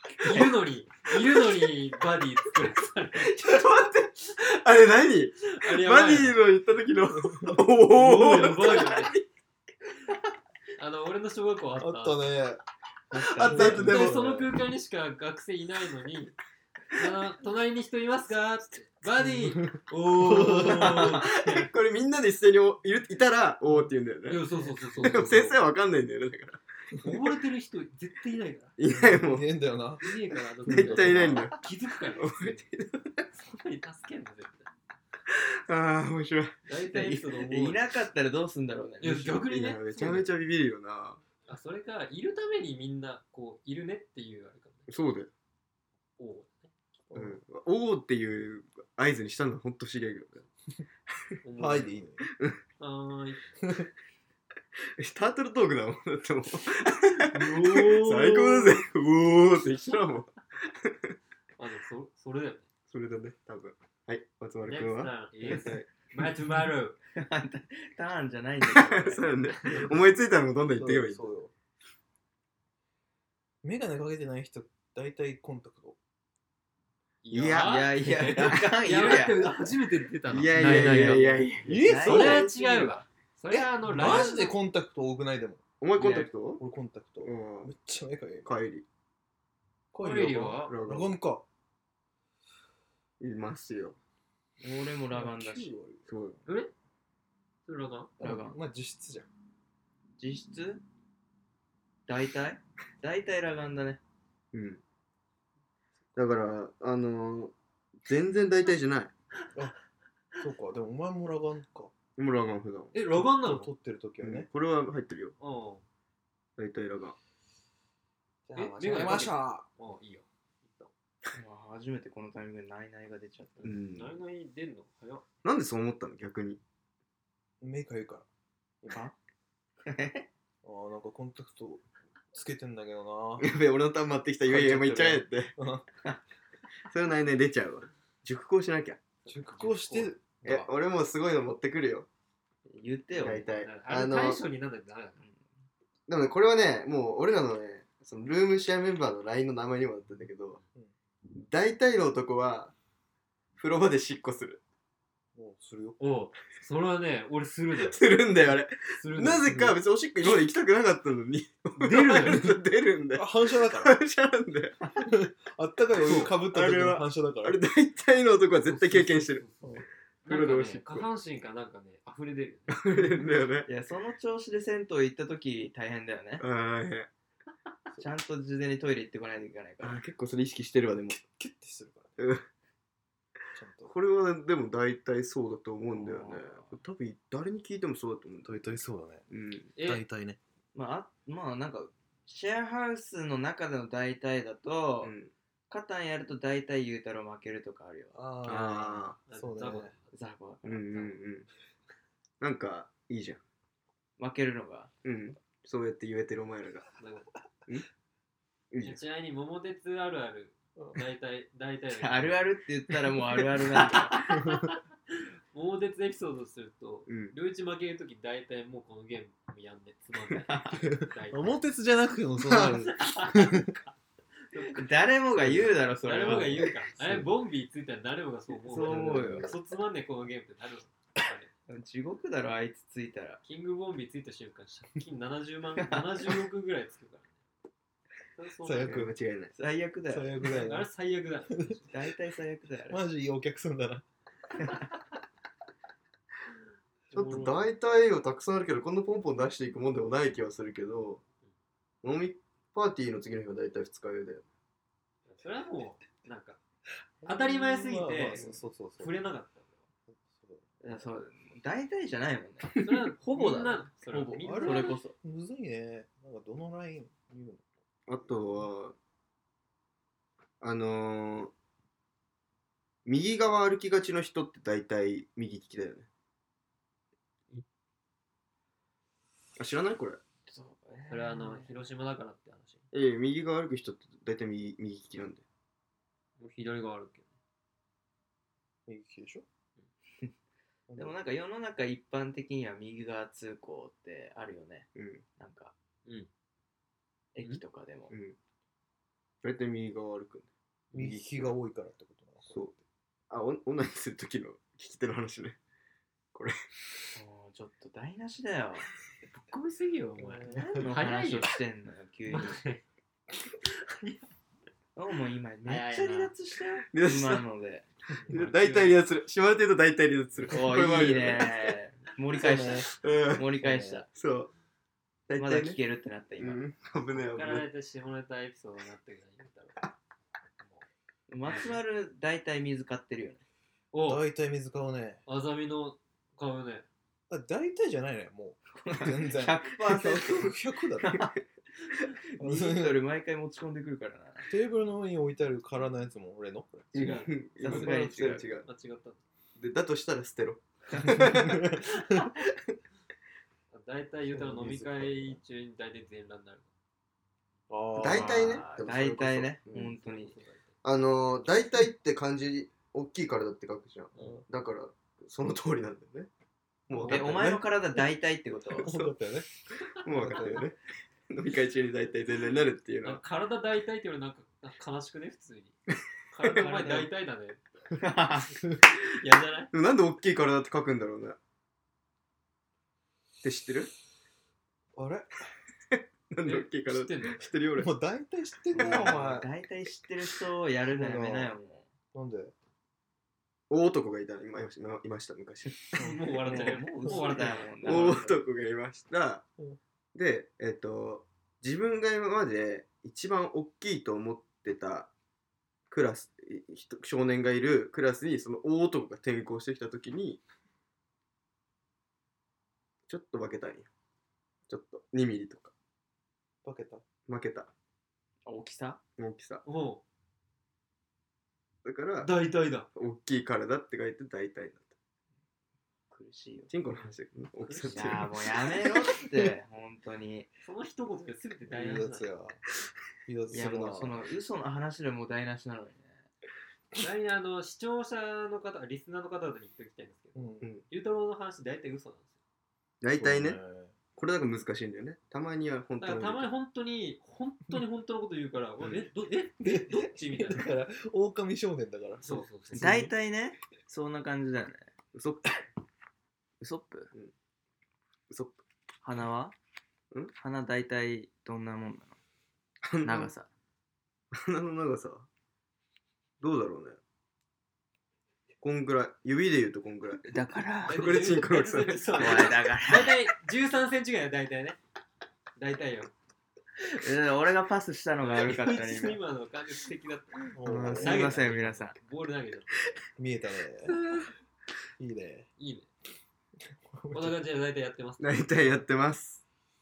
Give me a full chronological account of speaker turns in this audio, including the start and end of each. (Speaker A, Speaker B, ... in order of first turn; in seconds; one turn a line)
Speaker A: 0.2-3.4
Speaker B: 3.2-9.2
Speaker A: 5.5-6.4
Speaker C: 7.3-7.6
Speaker A: 7.9-9.2
Speaker A: 10.8-12.2
Speaker C: 11.8-12.6
Speaker D: 13.1-13.9
Speaker C: 13.3-14.5
Speaker B: 13.4-14.2
Speaker A: 13.4-16.4
Speaker A: 16.9-21.7
Speaker C: 19.2-21.1
Speaker B: 20.9-24.4
Speaker A: 24.3-25.6
Speaker C: 24.9-25.3
Speaker B: 25.0-26.6
Speaker A: 27.0-28.8
Speaker B: 28.8-29.5
Speaker C: 28.9-31.5
Speaker A: 30.0-32.6
Speaker B: 30.7-31.6
Speaker B: 32.2-33.3
Speaker A: 33.4-34.7
Speaker B: 35.3-36.6
Speaker A: 36.7-37.8
Speaker D: 36.9-39.5
Speaker A: 39.0-40.3
Speaker B: 39.5-41.2
Speaker A: 41.5-44.9
Speaker B: 44.9-45.3
Speaker A: 46.2-46.7
Speaker C: 47.1-47.4
Speaker B: 47.1-50.5
Speaker A: 51.4-52.0
Speaker C: 51.6-52.3
Speaker A: 52.8-53.4
Speaker B: 55.0-61.1
Speaker A: 57.3-58.5
Speaker C: 57.5-58.3
Speaker A: 61.6-62.7
Speaker B: 62.9-65.8
Speaker A: 64.7-67.0
Speaker D: 67.2-69.3
Speaker B: 68.7-71.2
Speaker C: 70.7-71.5
Speaker C: 73.6-76.0
Speaker A: 77.2-81.3
Speaker B: 77.3-77.8
Speaker D: 77.5-79.7
Speaker B: 80.3-82.5
Speaker D: 80.5-83.0
Speaker C: 80.6-81.0
Speaker C: 81.7-82.5
Speaker A: 82.1-84.5
Speaker C: 83.5-88.5
Speaker B: 85.8-86.6
Speaker B: 87.2-87.7
Speaker B: 88.5-88.8
Speaker C: 89.9-91.4
Speaker A: 90.0-90.8
Speaker B: 90.7-91.2
Speaker B: 93.2-94.0
Speaker D: 94.6-95.8
Speaker C: 95.1-96.2
Speaker B: 96.1-96.4
Speaker A: 96.5-96.7
Speaker A: 97.7-98.1
Speaker C: 98.2-99.3
Speaker D: 98.2-98.6
Speaker D: 100.2-100.8
Speaker D: 102.1-104.0
Speaker B: 104.5-104.8
Speaker B: 106.2-109.1
Speaker C: 110.4-111.9
Speaker B: 112.2-113.0
Speaker A: 112.9-113.7
Speaker C: 113.2-114.5
Speaker B: 114.2-115.3
Speaker A: 115.4-115.8
Speaker B: 116.6-117.2
Speaker C: 118.5-119.7
Speaker A: 118.5-120.9
Speaker D: 121.3-123.8
Speaker A: 123.6-125.2
Speaker B: 123.6-124.2
Speaker B: 125.4-126.6
Speaker C: 127.6-128.2
Speaker D: 128.8-129.2
Speaker D: 129.8-130.3
Speaker C: 130.6-133.5
Speaker B: 133.4-135.5
Speaker C: 134.5-135.8
Speaker B: 136.9-139.0
Speaker A: 139.3-140.2
Speaker C: 139.3-140.7
Speaker B: 140.4-142.1
Speaker D: 142.7-143.5
Speaker B: 143.2-144.4
Speaker A: 143.5-145.2
Speaker B: 146.1-150.6
Speaker B: 151.4-152.7
Speaker B: 153.6-154.6
Speaker C: 155.4-156.0
Speaker A: 156.0-158.0
Speaker B: 157.8-164.8
Speaker A: 159.0-159.6
Speaker C: 159.1-159.7
Speaker A: 161.8-162.5
Speaker C: 163.2-163.9
Speaker C: 165.0-167.6
Speaker B: 166.0-169.4
Speaker A: 166.1-166.3
Speaker A: 168.7-173.0
Speaker B: 170.3-171.1
Speaker B: 172.7-173.7
Speaker D: 173.7-176.4
Speaker B: 176.4-177.1
Speaker D: 178.0-180.0
Speaker B: 179.8-181.2
Speaker C: 181.3-182.1
Speaker B: 182.2-182.4
Speaker C: 183.6-183.9
Speaker B: 183.8-188.7
Speaker D: 185.9-186.7
Speaker C: 188.4-189.3
Speaker B: 189.3-189.7
Speaker A: 189.8-190.0
Speaker C: 189.8-190.4
Speaker D: 190.7-195.2
Speaker B: 195.0-195.3
Speaker D: 195.7-198.2
Speaker C: 198.1-199.9
Speaker B: 198.4-199.2
Speaker A: 199.3-200.2
Speaker D: 200.1-201.1
Speaker B: 200.6-201.5
Speaker B: 202.4-203.4
Speaker D: 204.2-204.9
Speaker B: 205.0-206.9
Speaker A: 207.0-207.3
Speaker B: 208.7-209.0
Speaker A: 208.8-212.4
Speaker D: 211.9-214.5
Speaker A: 213.8-214.8
Speaker C: 214.3-214.7
Speaker A: 215.5-221.6
Speaker B: 217.1-217.3
Speaker D: 220.4-220.8
Speaker C: 220.8-223.8
Speaker B: 222.5-222.8
Speaker A: 222.6-223.8
Speaker A: 224.5-224.9
Speaker D: 224.7-226.7
Speaker A: 225.6-231.5
Speaker C: 226.2-226.5
Speaker D: 228.7-229.6
Speaker B: 228.8-229.4
Speaker C: 228.9-229.5
Speaker D: 231.7-233.4
Speaker A: 233.4-237.3
Speaker A: 238.4-239.0
Speaker C: 238.6-239.1
Speaker B: 238.8-239.5
Speaker D: 239.5-240.4
Speaker C: 240.1-240.9
Speaker A: 240.4-241.9
Speaker C: 241.5-241.8
Speaker D: 241.9-243.0
Speaker C: 242.9-244.0
Speaker A: 247.1-247.7
Speaker B: 247.1-251.2
Speaker B: 252.0-254.4
Speaker A: 255.3-256.6
Speaker C: 257.2-259.2
Speaker A: 257.2-259.8
Speaker C: 260.1-260.6
Speaker D: 260.8-265.1
Speaker A: 262.8-265.0
Speaker C: 264.4-267.7
Speaker B: 268.1-268.9
Speaker B: 270.6-271.5
Speaker B: 273.1-276.1
Speaker B: 279.6-280.2
Speaker D: 280.5-281.7
Speaker A: 281.1-282.8
Speaker B: 282.9-285.4
Speaker A: 286.4-287.3
Speaker C: 288.9-289.4
Speaker C: 290.9-291.1
Speaker D: 291.0-295.7
Speaker B: 294.9-295.2
Speaker D: 297.4-298.1
Speaker B: 298.1-298.4
Speaker B: 299.4-301.5
Speaker C: 300.9-302.8
Speaker B: 303.3-305.6
Speaker D: 307.1-308.9
Speaker A: 309.3-311.6
Speaker C: 310.2-310.9
Speaker D: 310.5-312.6
Speaker A: 312.3-312.8
Speaker A: 313.6-314.2
Speaker D: 315.0-317.9
Speaker A: 315.7-316.3
Speaker B: 316.9-317.4
Speaker A: 318.2-319.0
Speaker B: 318.3-321.7
Speaker D: 320.5-324.1
Speaker C: 322.3-322.9
Speaker B: 322.9-323.5
Speaker C: 323.6-324.1
Speaker B: 324.1-324.5
Speaker B: 325.3-325.8
Speaker D: 325.4-326.6
Speaker B: 326.4-327.7
Speaker A: 327.2-329.9
Speaker A: 330.6-330.9
Speaker D: 331.3-333.4
Speaker A: 331.5-331.8
Speaker A: 333.9-334.2
Speaker C: 334.1-335.2
Speaker A: 335.3-336.9
Speaker C: 337.3-341.2
Speaker D: 338.8-341.4
Speaker D: 342.4-344.5
Speaker C: 342.4-343.0
Speaker C: 344.5-347.1
Speaker B: 346.9-348.7
Speaker A: 346.9-349.2
Speaker D: 347.0-348.5
Speaker B: 349.6-351.8
Speaker C: 351.0-352.3
Speaker A: 353.7-356.7
Speaker C: 354.3-355.4
Speaker C: 357.7-358.6
Speaker B: 358.0-359.9
Speaker D: 358.0-360.4
Speaker A: 359.7-360.7
Speaker B: 360.8-366.3
Speaker C: 364.2-364.4
Speaker B: 366.9-367.6
Speaker C: 367.0-367.6
Speaker D: 367.1-368.9
Speaker C: 368.8-369.5
Speaker B: 368.8-369.1
Speaker B: 370.0-370.8
Speaker C: 370.1-370.7
Speaker B: 371.3-373.2
Speaker A: 373.0-375.8
Speaker A: 376.3-377.6
Speaker D: 376.6-377.1
Speaker D: 378.0-378.5
Speaker A: 378.9-379.7
Speaker B: 379.7-381.4
Speaker B: 383.4-383.9
Speaker C: 385.0-385.4
Speaker B: 385.9-387.9
Speaker A: 386.4-387.4
Speaker C: 387.8-389.5
Speaker D: 388.7-391.9
Speaker B: 388.8-389.4
Speaker C: 390.9-391.5
Speaker C: 392.1-392.5
Speaker B: 393.7-395.8
Speaker D: 395.9-398.4
Speaker A: 395.9-398.2
Speaker C: 397.0-397.6
Speaker B: 397.8-399.4
Speaker B: 400.1-405.1
Speaker B: 405.9-410.4
Speaker B: 413.1-413.9
Speaker B: 414.7-415.7
Speaker C: 416.6-417.0
Speaker B: 417.3-417.7
Speaker D: 418.5-419.0
Speaker B: 419.2-419.6
Speaker A: 419.6-420.0
Speaker B: 421.8-422.3
Speaker A: 422.2-422.9
Speaker B: 422.9-424.9
Speaker D: 426.1-426.7
Speaker B: 426.7-428.3
Speaker A: 426.9-428.3
Speaker D: 427.9-430.5
Speaker A: 430.6-432.3
Speaker C: 431.7-432.6
Speaker C: 433.3-434.2
Speaker D: 433.5-436.2
Speaker A: 437.0-442.4
Speaker C: 440.4-440.7
Speaker B: 443.0-443.6
Speaker C: 443.2-443.9
Speaker B: 444.2-446.5
Speaker A: 446.0-450.7
Speaker C: 449.6-453.1
Speaker A: 452.2-453.0
Speaker D: 452.7-454.9
Speaker B: 455.1-455.5
Speaker D: 456.6-457.1
Speaker B: 458.3-458.6
Speaker D: 459.0-459.6
Speaker D: 460.4-462.2
Speaker B: 462.8-463.3
Speaker D: 463.0-463.5
Speaker B: 464.3-465.3
Speaker B: 466.4-467.0
Speaker B: 468.6-470.2
Speaker D: 470.3-471.2
Speaker B: 470.9-472.5
Speaker A: 470.9-474.8
Speaker D: 472.2-473.2
Speaker A: 475.6-476.1
Speaker D: 476.8-479.2
Speaker A: 478.2-482.8
Speaker C: 480.6-481.3
Speaker B: 480.7-481.2
Speaker D: 480.7-482.0
Speaker C: 483.2-484.0
Speaker A: 483.9-484.3
Speaker C: 485.0-485.5
Speaker A: 485.6-485.9
Speaker C: 486.9-487.4
Speaker A: 487.1-488.4
Speaker B: 488.2-489.4